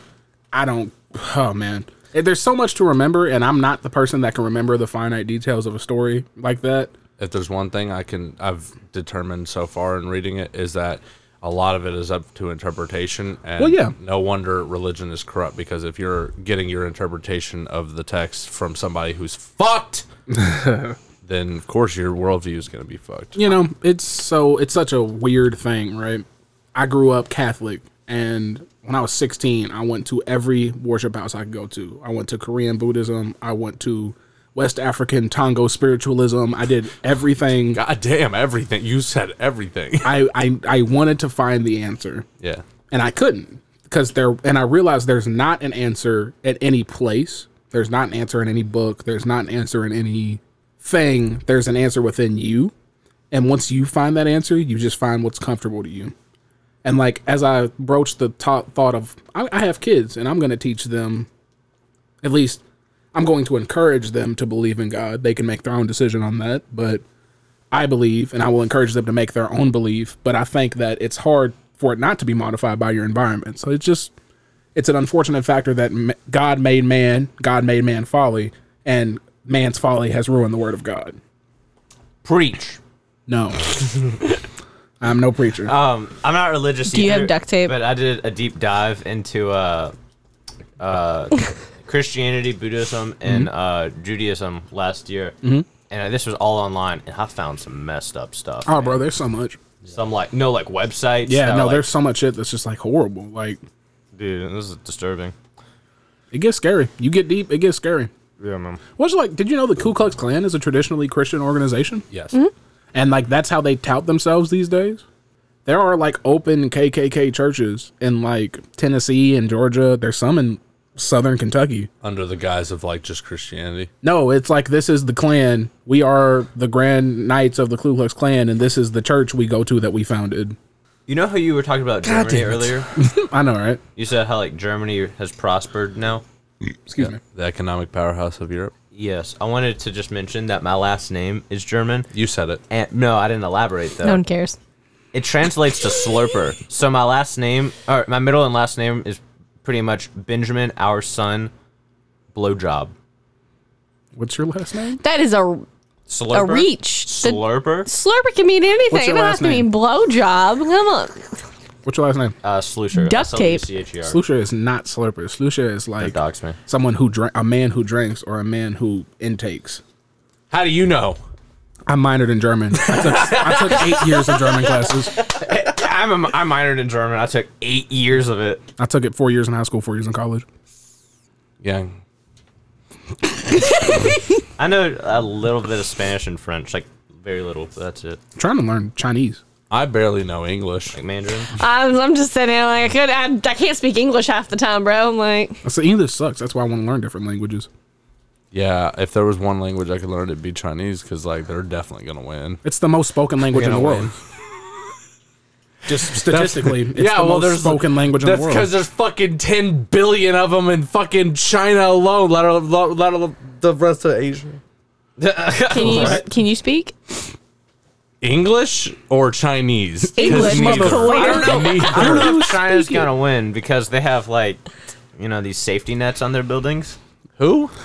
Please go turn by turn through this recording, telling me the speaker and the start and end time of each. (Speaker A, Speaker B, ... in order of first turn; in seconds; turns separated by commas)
Speaker A: 0.5-6.9, Speaker B: 7.2-20.1, Speaker A: 13.6-13.9, Speaker A: 20.3-21.0, Speaker B: 21.2-23.5, Speaker A: 23.4-37.8, Speaker B: 37.7-40.3, Speaker A: 40.0-42.3, Speaker B: 42.4-42.6, Speaker A: 42.9-52.7, Speaker A: 53.3-56.1, Speaker A: 56.8-61.3, Speaker A: 62.2-62.6, Speaker A: 63.1-67.0, Speaker A: 67.7-74.1, Speaker A: 74.8-81.2, Speaker C: 82.2-82.8, Speaker A: 83.3-83.7, Speaker A: 85.0-85.7, Speaker C: 85.7-89.9, Speaker D: 86.9-87.8, Speaker C: 90.8-95.4, Speaker C: 95.9-99.0, Speaker A: 98.7-99.6, Speaker C: 99.9-101.9, Speaker A: 101.3-103.6, Speaker C: 104.2-105.3, Speaker A: 106.3-108.1, Speaker C: 108.4-108.8, Speaker A: 109.0-112.1, Speaker B: 112.1-112.4, Speaker A: 112.9-115.0, Speaker A: 115.7-121.9, Speaker B: 122.0-123.9, Speaker A: 124.0-130.6, Speaker C: 131.1-132.9, Speaker A: 132.2-133.8, Speaker C: 134.0-136.2, Speaker A: 136.9-137.2, Speaker B: 137.0-138.7, Speaker C: 138.9-142.1, Speaker B: 142.1-142.6, Speaker C: 142.7-144.2, Speaker D: 144.0-144.6, Speaker C: 145.1-151.5, Speaker C: 152.3-152.9, Speaker A: 154.2-155.0, Speaker D: 155.0-155.7, Speaker C: 156.1-157.9, Speaker D: 156.3-161.3, Speaker A: 158.9-159.7, Speaker A: 161.9-162.3, Speaker C: 162.4-164.2, Speaker D: 162.9-163.7, Speaker A: 164.1-166.2, Speaker C: 166.0-166.6, Speaker A: 166.7-169.8, Speaker B: 170.5-171.2, Speaker A: 171.9-175.2, Speaker B: 173.0-174.1, Speaker C: 175.2-178.7, Speaker A: 178.8-180.4, Speaker B: 181.6-181.9, Speaker C: 184.6-188.2, Speaker A: 188.4-189.4, Speaker B: 189.7-191.0, Speaker C: 190.9-191.5, Speaker D: 191.6-195.6, Speaker A: 195.6-197.7, Speaker B: 198.5-202.6, Speaker A: 202.6-204.1, Speaker C: 203.5-204.1, Speaker A: 205.9-208.7, Speaker B: 205.9-214.6, Speaker C: 215.2-216.2, Speaker D: 215.7-216.9, Speaker A: 215.9-216.2, Speaker B: 218.2-222.4, Speaker D: 220.2-222.2, Speaker A: 220.2-223.1, Speaker C: 221.9-224.6, Speaker C: 225.2-227.0, Speaker B: 227.4-227.7